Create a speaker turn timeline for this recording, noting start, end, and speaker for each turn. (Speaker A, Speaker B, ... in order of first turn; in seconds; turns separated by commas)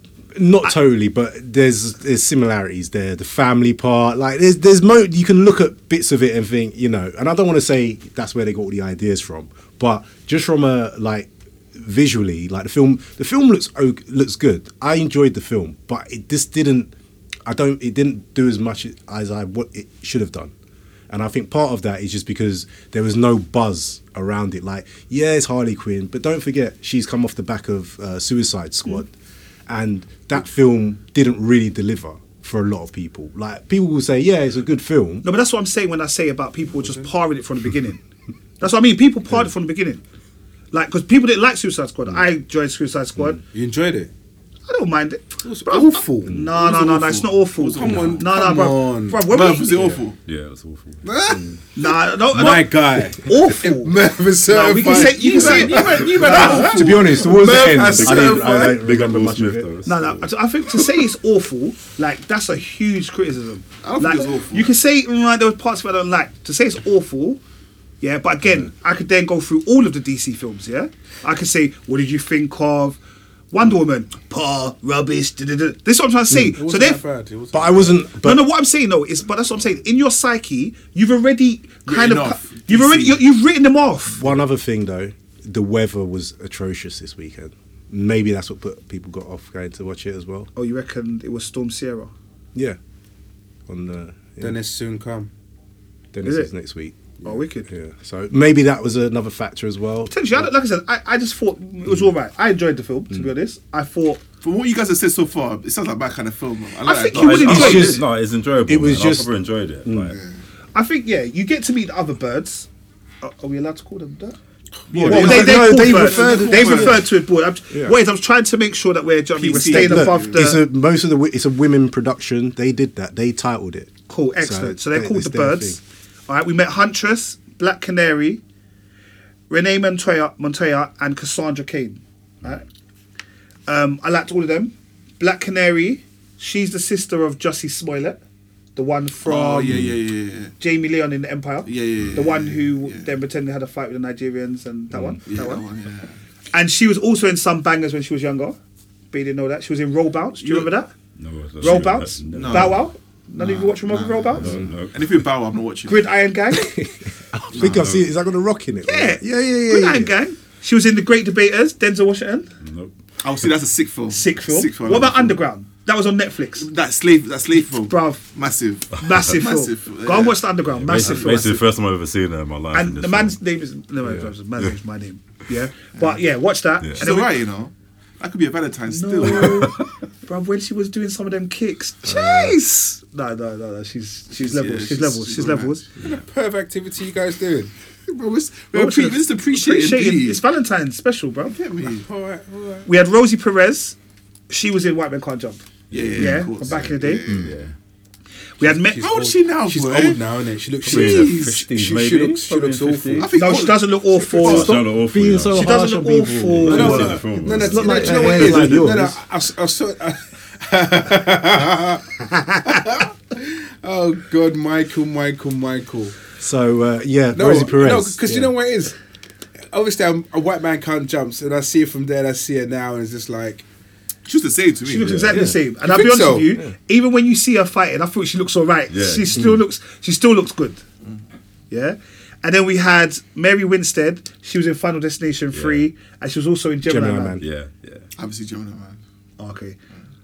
Speaker A: 0.3-16.9, Speaker A: 17.4-20.5, Speaker A: 21.1-29.1, Speaker A: 29.7-35.2, Speaker B: 35.2-38.0, Speaker B: 38.6-40.0, Speaker B: 40.7-43.4, Speaker C: 43.5-44.1, Speaker B: 44.7-49.8, Speaker C: 45.4-46.4, Speaker D: 46.4-48.3, Speaker C: 47.8-49.3, Speaker D: 49.2-50.2, Speaker E: 50.2-51.1, Speaker C: 51.0-51.5, Speaker B: 51.8-57.2, Speaker C: 52.3-56.7, Speaker D: 54.6-58.8, Speaker A: 56.2-59.7, Speaker E: 57.8-60.3, Speaker B: 59.8-67.4, Speaker D: 63.8-64.7, Speaker B: 68.0-73.0, Speaker B: 73.5-77.0, Speaker C: 76.5-78.0, Speaker A: 77.5-78.5, Speaker B: 78.2-84.2, Speaker D: 81.8-83.2, Speaker A: 84.2-90.5, Speaker B: 90.5-92.1, Speaker A: 93.7-94.6, Speaker C: 94.4-95.3, Speaker A: 96.1-100.5, Speaker B: 96.2-96.5, Speaker B: 97.2-97.7, Speaker B: 100.1-104.2, Speaker D: 104.4-108.0, Speaker B: 106.8-108.0, Speaker E: 107.1-110.2, Speaker A: 107.4-108.1, Speaker A: 108.7-109.3, Speaker A: 109.8-110.2, Speaker D: 110.1-110.4, Speaker B: 110.7-112.7, Speaker B: 113.2-114.4, Speaker D: 114.9-117.0, Speaker A: 114.9-117.1, Speaker C: 114.9-115.3, Speaker B: 115.0-120.6, Speaker A: 117.7-118.0, Speaker D: 119.4-120.4, Speaker A: 119.5-125.8, Speaker B: 124.1-128.4, Speaker B: 129.5-132.6, Speaker B: 133.7-138.2, Speaker B: 138.8-139.8, Speaker D: 139.2-140.5, Speaker B: 140.6-145.7, Speaker D: 141.6-143.1, Speaker D: 145.3-146.2, Speaker B: 146.5-148.6, Speaker B: 149.1-150.9, Speaker D: 150.4-150.7, Speaker E: 151.2-152.8, Speaker B: 151.6-154.5, Speaker D: 152.3-156.1, Speaker E: 154.4-155.2, Speaker B: 155.9-156.8, Speaker A: 156.5-160.1, Speaker D: 157.5-157.8, Speaker E: 157.5-158.0, Speaker B: 158.9-162.5, Speaker E: 162.6-162.9, Speaker D: 163.2-165.4, Speaker B: 164.1-166.7, Speaker D: 166.6-170.4, Speaker B: 167.6-168.3, Speaker B: 168.9-171.7, Speaker E: 170.7-173.4, Speaker B: 172.7-177.4, Speaker A: 174.0-174.3, Speaker D: 176.9-179.7, Speaker B: 178.9-185.8, Speaker E: 179.3-179.8, Speaker A: 182.1-182.6, Speaker D: 184.3-185.9, Speaker C: 186.0-187.7, Speaker D: 188.1-190.4, Speaker B: 188.7-191.6, Speaker D: 191.5-192.1, Speaker C: 191.8-192.9, Speaker B: 192.8-193.9, Speaker B: 194.5-195.6, Speaker E: 195.9-196.4, Speaker D: 195.9-197.6, Speaker B: 196.2-197.2, Speaker E: 197.2-197.7, Speaker B: 198.6-199.1, Speaker C: 198.6-203.3, Speaker D: 199.0-200.2, Speaker D: 200.8-201.6, Speaker E: 200.8-203.3, Speaker D: 203.2-204.7, Speaker B: 203.3-204.8, Speaker E: 204.4-205.8, Speaker A: 204.4-209.2, Speaker B: 205.5-207.2, Speaker E: 206.5-208.6, Speaker C: 206.7-216.2, Speaker B: 207.8-208.7, Speaker B: 212.3-212.8, Speaker A: 216.4-218.5, Speaker C: 217.3-219.0, Speaker C: 219.7-223.7, Speaker D: 224.2-225.5, Speaker B: 224.8-230.8, Speaker A: 225.2-225.6, Speaker C: 225.8-226.6, Speaker E: 228.9-229.5, Speaker B: 231.7-237.4, Speaker E: 235.5-235.9, Speaker A: 236.8-237.4, Speaker E: 237.4-238.1, Speaker D: 238.2-239.0, Speaker B: 239.4-239.8